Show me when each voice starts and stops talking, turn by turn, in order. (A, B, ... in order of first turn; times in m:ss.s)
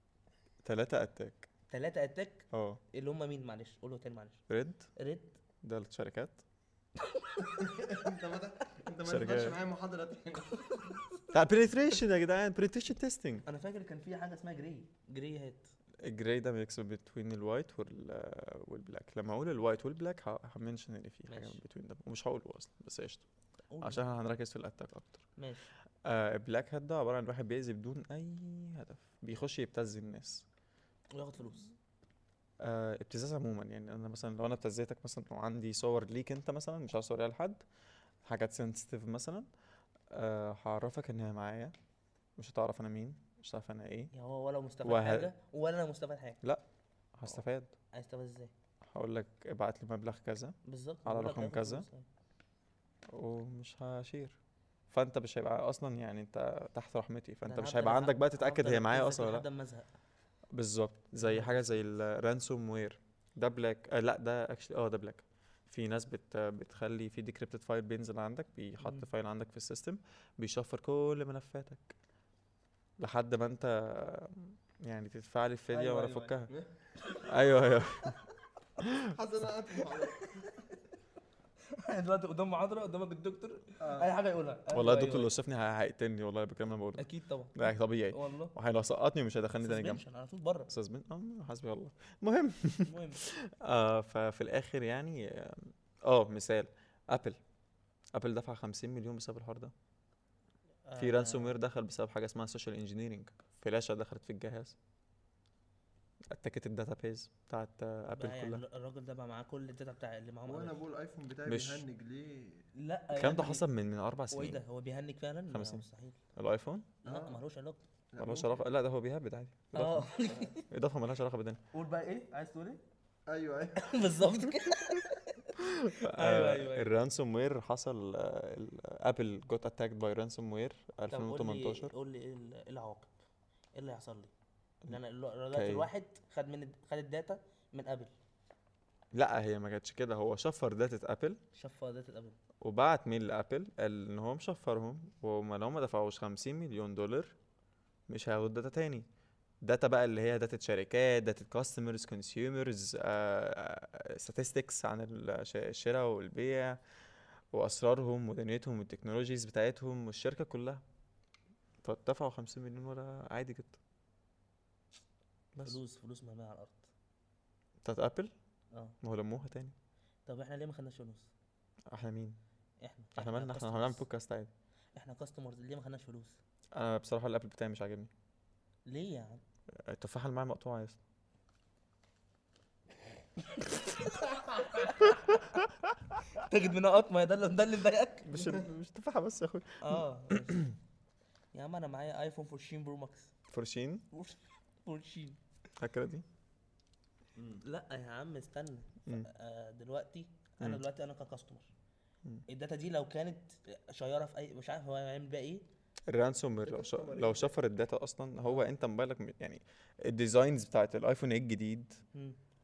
0:00.6-0:01.5 A
0:01.7-0:04.4 B
0:02.5-0:02.8 A
0:04.5-0:04.9 A
0:05.0-0:05.4 B
0:05.6-0:06.4 A
0:07.5-0:11.1 C
0:09.0-0:09.6 A
0:11.3-0:13.4 A
0:13.5-0:15.7 B
0:16.0-0:23.2 A
0:21.3-0:21.6 B
0:23.7-0:24.1 B
0:23.8-0:25.3 A
0:25.4-0:25.7 B
0:26.0-0:30.5 A
0:31.1-0:31.7 B
0:32.6-0:37.6 A
0:38.2-0:39.5 A
0:40.1-0:41.7 A
0:42.4-0:44.1 A
0:44.1-0:46.4 B
0:44.8-0:45.3 A
0:47.2-0:47.7 A
0:47.9-0:48.5 B
0:48.8-0:51.9 A
0:50.6-0:52.1 B
0:53.1-0:54.4 A
0:54.9-0:59.5 A
0:57.5-0:59.9 B
1:00.5-1:11.9 A
1:01.2-1:01.6 B
1:08.8-1:09.1 B
1:13.0-1:16.5 A
1:15.7-1:17.3 B
1:17.3-1:18.2 A
1:18.8-1:19.1 A
1:19.1-1:20.6 C
1:21.7-1:25.4 B
1:23.8-1:24.1 C
1:24.7-1:30.0 A
1:27.0-1:28.6 B
1:29.6-1:30.7 B
1:30.7-1:37.4 A
1:32.8-1:33.2 B
1:38.1-1:39.7 A
1:40.9-1:41.6 B
1:41.0-1:44.8 A
1:46.3-1:48.6 A
1:48.1-1:50.8 B
1:50.5-1:52.7 C
1:51.4-1:51.8 A
1:52.8-1:53.7 B
1:53.1-1:54.6 A
1:54.3-1:56.2 B
1:55.5-1:56.9 A
1:57.0-1:57.8 B
1:57.0-1:57.4 C
1:58.1-1:58.7 C
1:58.2-2:01.6 A
1:59.7-2:00.6 B
2:01.7-2:02.8 B
2:03.3-2:04.0 C
2:03.8-2:06.9 B
2:05.8-2:11.9 A
2:11.1-2:13.2 B
2:13.8-2:14.3 B
2:14.9-2:18.1 B
2:15.5-2:15.9 A
2:19.1-2:21.4 A
2:21.5-2:22.4 B
2:22.6-2:27.3 A
2:28.1-2:29.1 A
2:29.6-2:36.8 A
2:37.5-2:40.8 A
2:41.8-2:43.8 A
2:45.6-2:46.9 B
2:47.8-2:48.3 A
2:49.0-2:49.8 A
2:50.3-2:51.3 B
2:51.9-2:52.4 A
2:52.8-2:54.1 B
2:53.2-2:54.5 A
2:55.0-2:56.4 B
2:56.7-2:58.1 A
2:58.9-2:59.4 B
2:59.8-3:01.0 A
3:03.6-3:05.6 B
3:06.4-3:08.6 B
3:08.3-3:10.7 A
3:09.8-3:10.7 B
3:11.5-3:13.3 B
3:13.5-3:14.0 A
3:14.1-3:15.4 B
3:15.8-3:16.2 A
3:17.4-3:17.6 C
3:17.6-3:21.7 B
3:22.5-3:25.6 B
3:26.1-3:32.0 A
3:26.6-3:27.6 C
3:32.1-3:32.4 B